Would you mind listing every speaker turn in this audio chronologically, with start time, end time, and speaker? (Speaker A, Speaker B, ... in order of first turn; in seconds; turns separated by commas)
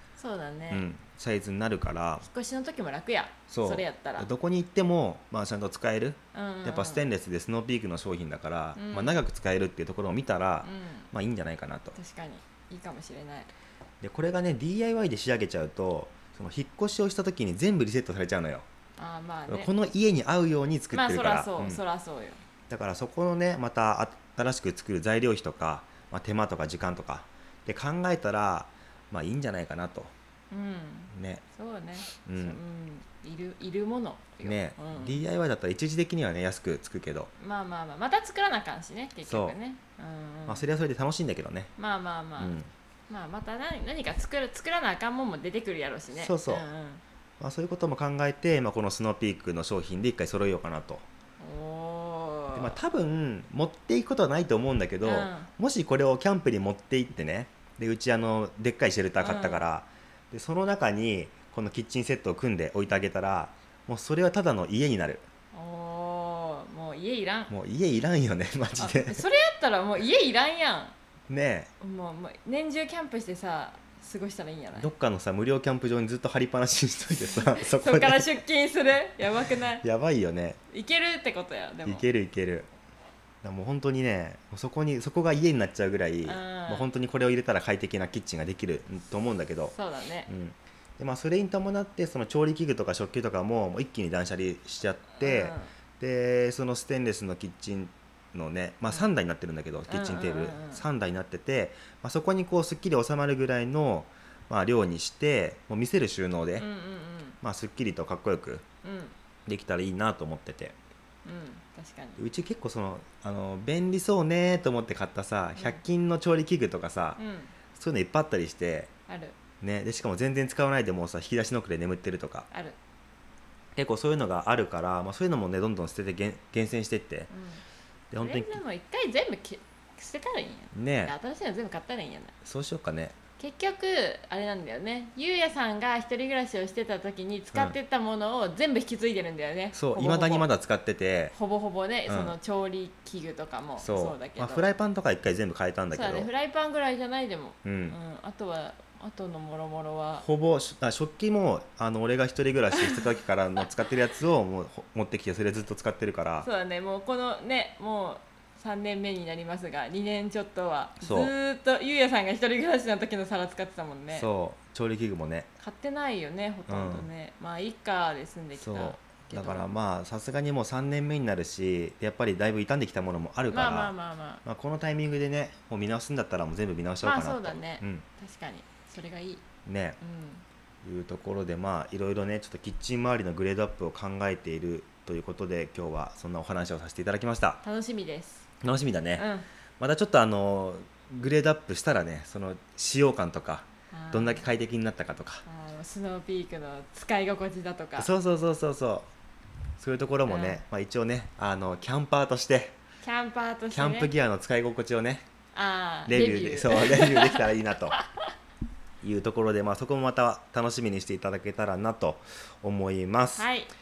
Speaker A: 0.2-0.9, Speaker B: 0.7-2.3, Speaker A: 2.2-4.3, Speaker B: 3.5-12.0, Speaker A: 6.3-7.1, Speaker A: 8.8-9.2, Speaker A: 10.6-11.1, Speaker A: 11.9-13.5, Speaker B: 14.0-18.6, Speaker A: 19.0-19.7, Speaker B: 19.5-21.8, Speaker A: 20.9-22.4, Speaker B: 22.7-30.1, Speaker A: 30.5-35.2, Speaker B: 31.1-31.4, Speaker B: 32.2-32.6, Speaker B: 34.4-37.3, Speaker A: 37.4-40.6, Speaker B: 39.2-39.6, Speaker B: 40.5-41.7, Speaker A: 41.8-42.5, Speaker B: 42.4-42.7, Speaker A: 43.1-47.0, Speaker B: 46.1-46.7, Speaker B: 47.4-51.0, Speaker A: 51.4-52.8, Speaker B: 52.5-65.2, Speaker A: 55.0-55.5, Speaker A: 59.2-59.6, Speaker A: 65.5-67.5, Speaker B: 67.5-69.2, Speaker A: 68.8-71.0, Speaker B: 71.3-71.7, Speaker A: 71.8-74.9, Speaker B: 74.8-78.3, Speaker A: 77.3-79.8, Speaker B: 79.8-80.6, Speaker A: 80.7-82.1, Speaker B: 81.9-82.7, Speaker B: 83.4-89.7, Speaker A: 86.2-86.9, Speaker A: 89.7-90.3, Speaker B: 90.3-106.7, Speaker A: 95.2-95.7, Speaker A: 99.9-100.8, Speaker A: 106.6-107.4, Speaker B: 107.4-108.6, Speaker A: 108.8-109.1, Speaker B: 109.5-110.8, Speaker A: 111.2-112.2, Speaker B: 112.2-117.2, Speaker A: 117.2-117.5, Speaker B: 117.7-118.9, Speaker A: 119.1-119.4, Speaker B: 119.6-122.5, Speaker A: 122.5-122.8, Speaker B: 123.8-127.3, Speaker A: 127.3-127.6, Speaker B: 128.1-128.6, Speaker A: 128.2-132.3, Speaker B: 130.7-131.1, Speaker B: 132.4-133.2, Speaker A: 133.4-140.5, Speaker B: 139.7-141.3, Speaker A: 141.3-144.7, Speaker B: 142.1-142.3, Speaker B: 143.8-146.3, Speaker A: 145.9-150.2, Speaker B: 147.6-148.0, Speaker B: 150.2-156.5, Speaker A: 152.8-153.1, Speaker A: 156.4-164.3, Speaker B: 161.0-161.3, Speaker B: 164.1-165.5, Speaker A: 165.6-169.7, Speaker B: 166.7-167.1, Speaker B: 168.6-173.9, Speaker A: 173.5-174.4, Speaker B: 174.4-178.0, Speaker A: 177.0-179.4, Speaker B: 179.6-180.0, Speaker A: 180.0-180.4, Speaker B: 180.8-187.6, Speaker A: 187.6-188.4, Speaker B: 188.6-189.2, Speaker A: 189.1-189.5, Speaker B: 189.8-195.4, Speaker A: 193.9-194.4, Speaker A: 195.5-198.1, Speaker B: 198.0-199.1, Speaker B: 199.8-202.8, Speaker A: 200.2-200.6, Speaker A: 203.0-204.1, Speaker B: 203.7-205.2, Speaker A: 205.5-208.1, Speaker B: 206.1-208.0, Speaker B: 209.0-213.5, Speaker A: 213.4-213.7